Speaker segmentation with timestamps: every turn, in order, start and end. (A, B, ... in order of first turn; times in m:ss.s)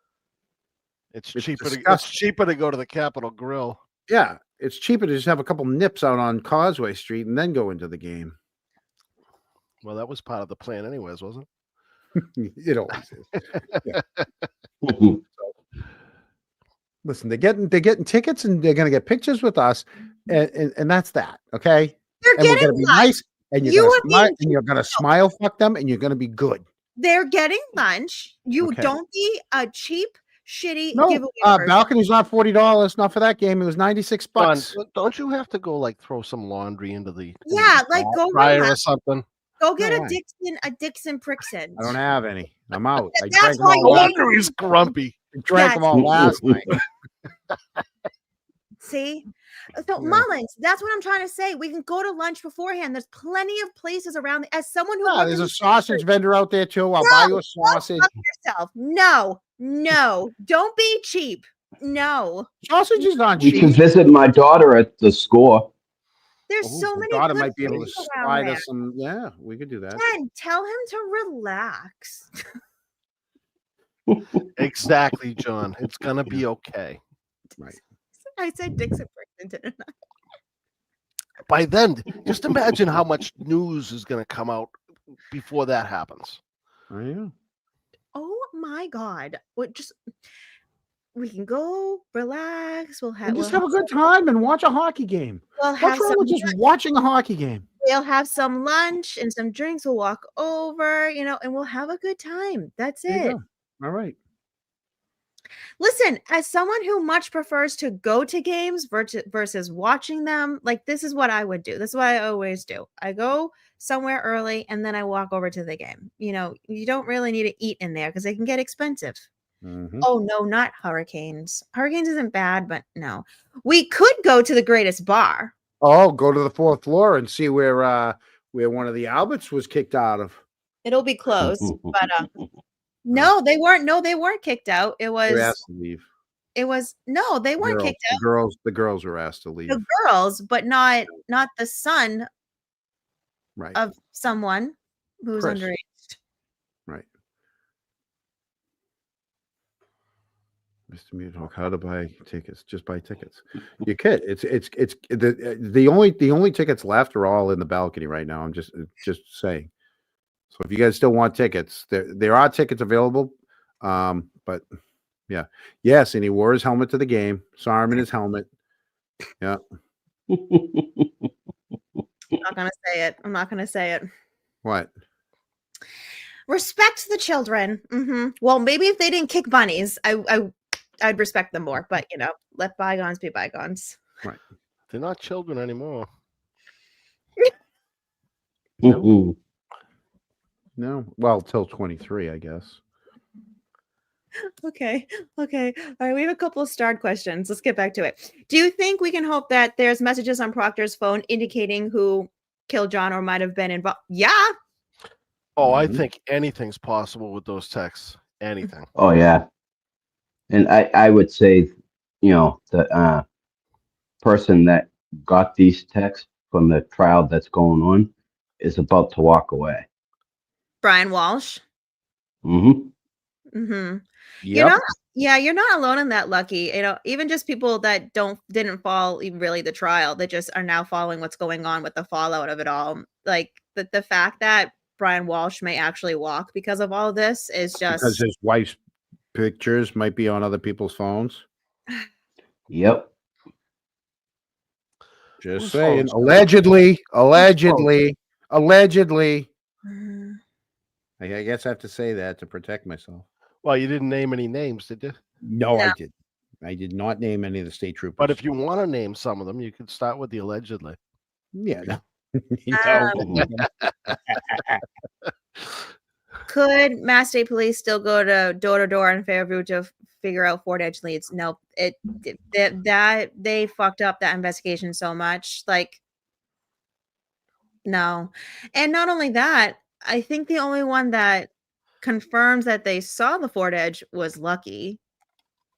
0:01.1-0:03.8 A
0:01.3-0:02.0 B
0:04.1-0:08.4 B
0:09.8-0:11.4 A
0:12.2-0:14.0 B
0:13.8-0:14.2 A
0:14.8-0:15.1 C
0:17.0-0:26.6 B
0:22.2-0:25.0 D
0:27.0-0:31.8 D
0:28.6-0:28.9 B
0:30.9-0:34.7 B
0:34.4-0:39.2 A
0:37.4-0:38.8 D
0:39.6-0:41.9 D
0:39.8-0:40.2 B
0:41.8-0:44.2 B
0:43.2-0:44.2 D
0:43.8-0:45.1 A
0:45.3-0:46.7 B
0:45.5-0:46.0 D
0:45.9-0:46.6 C
0:48.8-0:56.0 D
0:50.0-0:50.2 B
0:55.0-0:58.1 B
0:57.0-1:03.2 D
1:02.6-1:03.8 B
1:03.4-1:05.7 C
1:06.5-1:08.6 D
1:06.6-1:10.0 B
1:09.9-1:12.3 D
1:14.6-1:17.0 A
1:17.7-1:19.9 D
1:21.4-1:24.7 A
1:25.3-1:26.4 A
1:26.9-1:27.3 B
1:28.1-1:30.0 D
1:31.1-1:33.9 D
1:33.2-1:37.6 B
1:35.6-1:36.6 D
1:37.8-1:43.4 D
1:43.1-1:44.2 B
1:45.8-1:59.3 D
1:59.6-2:00.1 B
2:00.0-2:05.5 D
2:05.8-2:10.4 B
2:10.8-2:12.3 D
2:13.0-2:15.6 D
2:15.3-2:16.1 B
2:16.5-2:18.2 D
2:17.6-2:19.8 B
2:19.7-2:22.3 D
2:23.7-2:26.2 D
2:25.4-2:25.7 B
2:30.9-2:39.7 B
2:40.5-2:44.6 B
2:45.3-2:48.4 B
2:50.3-2:51.1 C
2:52.3-2:54.1 D
2:54.6-2:54.9 B
2:56.5-3:04.0 D
3:04.9-3:06.1 A
3:08.8-3:09.3 C
3:10.8-3:12.8 B
3:14.6-3:24.5 D
3:25.6-3:28.9 A
3:25.6-3:26.0 B
3:29.0-3:29.4 C
3:30.5-3:33.2 C
3:34.2-3:39.8 C
3:40.8-3:41.6 D
3:42.4-3:42.9 C
3:43.5-3:58.2 D
3:44.4-3:44.8 B
3:57.9-3:58.8 B
3:59.3-4:01.4 B
4:02.7-4:03.1 C
4:05.4-4:09.5 B
4:05.6-4:06.5 A
4:07.6-4:07.9 A
4:09.8-4:10.4 D
4:11.2-4:13.2 B
4:13.6-4:15.2 A
4:15.4-4:18.4 B
4:18.2-4:21.0 A
4:21.5-4:23.6 B
4:22.7-4:23.2 D
4:23.3-4:24.1 A
4:26.5-4:36.0 D
4:37.8-4:41.5 D
4:42.0-4:45.0 D